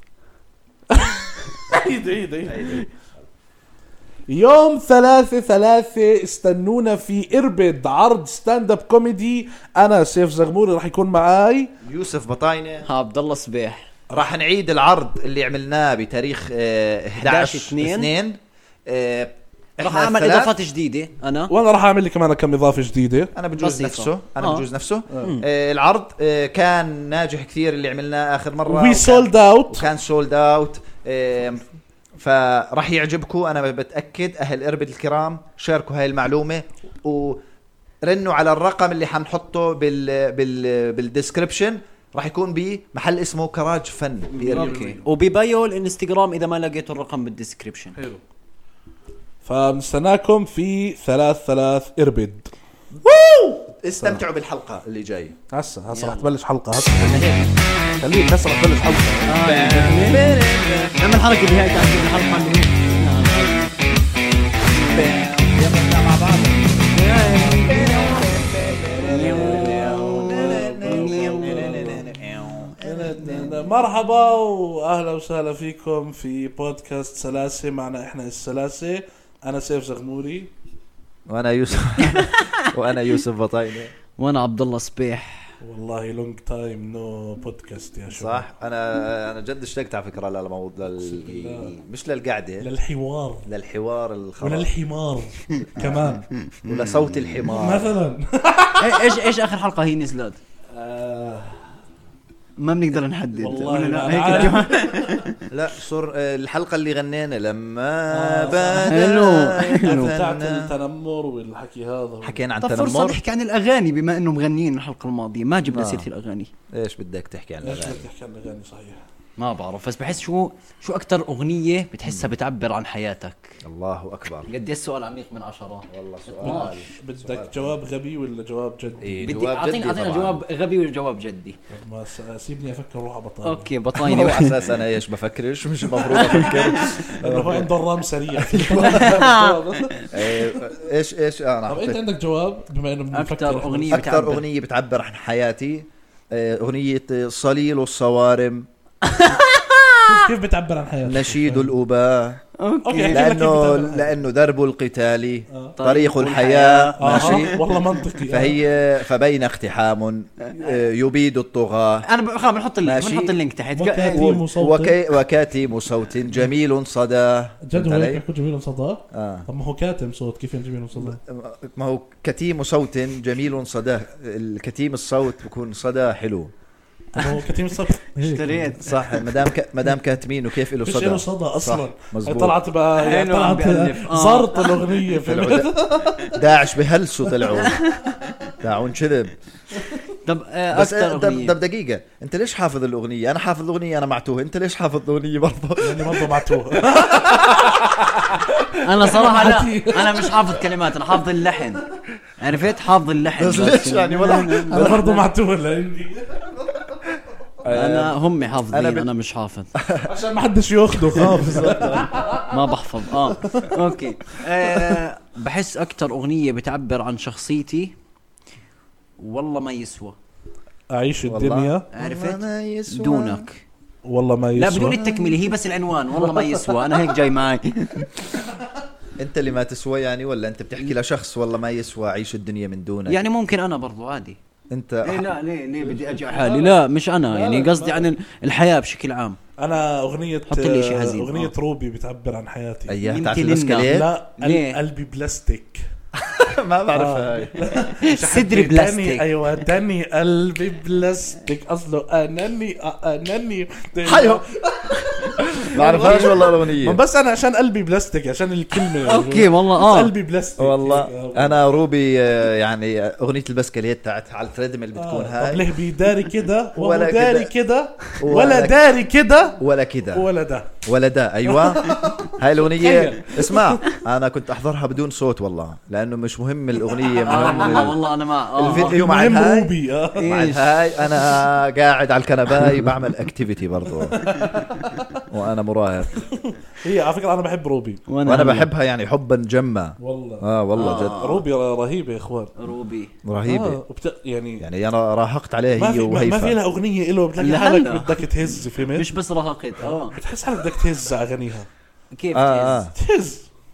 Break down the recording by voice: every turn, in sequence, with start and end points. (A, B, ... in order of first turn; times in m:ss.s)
0:00.9-0:02.9 A
0:02.4-0:02.8 B
0:04.3-0:11.7 A
0:11.8-0:12.9 B
0:12.8-0:13.9 C
0:14.1-0:20.5 B
0:17.2-0:18.1 C
0:19.8-0:21.5 C
0:21.5-0:23.3 A
0:23.3-0:31.6 B
0:23.6-0:24.6 C
0:25.2-0:25.4 C
0:28.6-0:29.8 A
0:32.2-0:37.4 B
0:38.0-0:44.8 B
0:44.4-0:45.1 A
0:44.4-0:48.0 C
0:48.0-0:48.2 A
0:49.4-0:52.5 A
0:52.9-0:55.4 B
0:55.5-0:57.3 A
0:55.9-0:56.2 C
0:57.0-0:57.4 B
0:58.0-0:59.3 A
0:59.3-1:00.4 C
0:59.4-1:01.3 B
1:01.0-1:03.8 C
1:04.8-1:06.8 B
1:06.9-1:08.3 C
1:07.6-1:13.7 B
1:08.9-1:12.0 A
1:09.0-1:12.0 C
1:12.8-1:20.5 A
1:21.3-1:23.9 B
1:24.2-1:25.6 C
1:25.6-1:28.4 A
1:28.1-1:32.7 B
1:31.0-1:31.8 A
1:32.6-1:33.4 A
1:33.4-1:34.7 B
1:34.4-1:36.2 A
1:35.7-1:37.9 B
1:36.7-1:37.2 C
1:37.4-1:39.1 A
1:38.8-1:40.4 C
1:40.7-1:41.6 A
1:42.6-1:45.3 C
1:43.4-1:45.2 A
1:45.5-1:50.7 B
1:48.1-1:49.0 A
1:48.7-1:50.1 C
1:49.7-1:52.4 A
1:52.2-1:53.2 B
1:52.6-1:56.5 C
1:55.7-1:56.1 B
1:56.7-1:58.0 B
1:57.6-1:59.0 A
1:59.4-2:03.6 C
2:03.6-2:04.5 B
2:04.5-2:06.8 C
2:05.9-2:07.8 B
2:06.4-2:09.5 A
2:09.0-2:10.4 B
2:09.2-2:11.6 C
2:11.7-2:14.3 A
2:13.4-2:14.6 C
2:14.0-2:17.7 B
2:16.1-2:17.0 C
2:16.5-2:20.5 A
2:18.3-2:19.2 B
2:18.8-2:20.0 C
2:20.1-2:22.0 B
2:21.7-2:24.0 A
2:23.1-2:24.4 C
2:23.9-2:28.7 B
2:29.0-2:30.2 C
2:30.0-2:31.7 A
2:31.0-2:32.4 B
2:32.6-2:33.2 C
2:32.8-2:34.1 A
2:33.1-2:37.6 B
2:35.5-2:35.8 A
2:35.8-2:37.5 C
2:37.0-2:38.6 A
2:38.3-2:42.0 B
2:42.0-2:44.3 C
2:42.8-2:43.3 B
2:43.7-2:45.0 A
2:44.1-2:48.2 B
2:47.6-2:51.2 A
2:49.1-2:49.5 B
2:50.9-2:56.5 B
2:57.2-2:58.8 A
2:58.2-2:59.0 C
2:58.8-3:02.6 B
3:00.8-3:06.4 A
3:03.0-3:05.0 C
3:05.2-3:07.8 B
3:07.7-3:08.1 C
3:08.6-3:09.4 B
3:10.2-3:11.5 C
3:10.7-3:17.6 B
3:15.8-3:20.6 A
3:18.8-3:21.8 C
3:22.4-3:25.2 C
3:23.4-3:25.1 B
3:24.7-3:26.5 A
3:27.6-3:28.2 B
3:27.7-3:29.7 C
3:28.7-3:29.1 B
3:29.7-3:30.1 B
3:30.0-3:32.4 A
3:31.1-3:32.2 B
3:32.5-3:37.9 C
3:33.4-3:33.7 A
3:34.6-3:34.9 A
3:39.2-3:40.2 C
3:40.9-3:41.8 A
3:41.3-3:43.4 B
3:41.9-3:43.6 C
3:44.0-3:45.0 A
3:44.6-3:48.1 C
3:45.0-3:45.5 B
3:46.2-3:46.7 A
3:49.2-3:53.2 B
3:53.1-3:54.4 C
3:54.7-3:55.3 B
3:55.0-3:59.4 C
3:55.8-3:56.8 A
3:57.3-3:58.1 A
3:59.6-4:03.0 A
4:00.5-4:01.5 C
4:02.9-4:04.1 B
4:03.0-4:04.8 C
4:03.8-4:05.8 A
4:06.2-4:07.7 B
4:06.9-4:21.6 A
4:08.0-4:09.4 C
4:14.0-4:14.4 B
4:15.7-4:17.0 B
4:19.0-4:20.1 C
4:20.6-4:25.7 B
4:24.9-4:29.6 A
4:26.8-4:27.5 B
4:28.2-4:28.8 B
4:29.6-4:30.3 B
4:30.1-4:30.7 A
4:30.8-4:38.0 B
4:31.5-4:33.8 A
4:37.1-4:37.9 A
4:37.2-4:39.0 C
4:38.6-4:44.3 B
4:38.6-4:40.3 A
4:40.2-4:40.7 C
4:44.2-4:45.2 A
4:45.3-4:46.2 B
4:46.4-4:48.0 A
4:48.1-4:48.7 C
4:48.2-4:51.2 B
4:50.0-4:52.5 A
4:50.7-4:51.4 C
4:52.6-4:53.1 C
4:53.2-4:53.8 B
4:53.4-4:54.6 A
4:54.6-4:56.6 B
4:55.8-4:59.1 A
4:57.4-5:00.1 C
4:59.8-5:01.7 A
5:02.1-5:02.8 C
5:02.3-5:02.9 B
5:02.9-5:03.4 A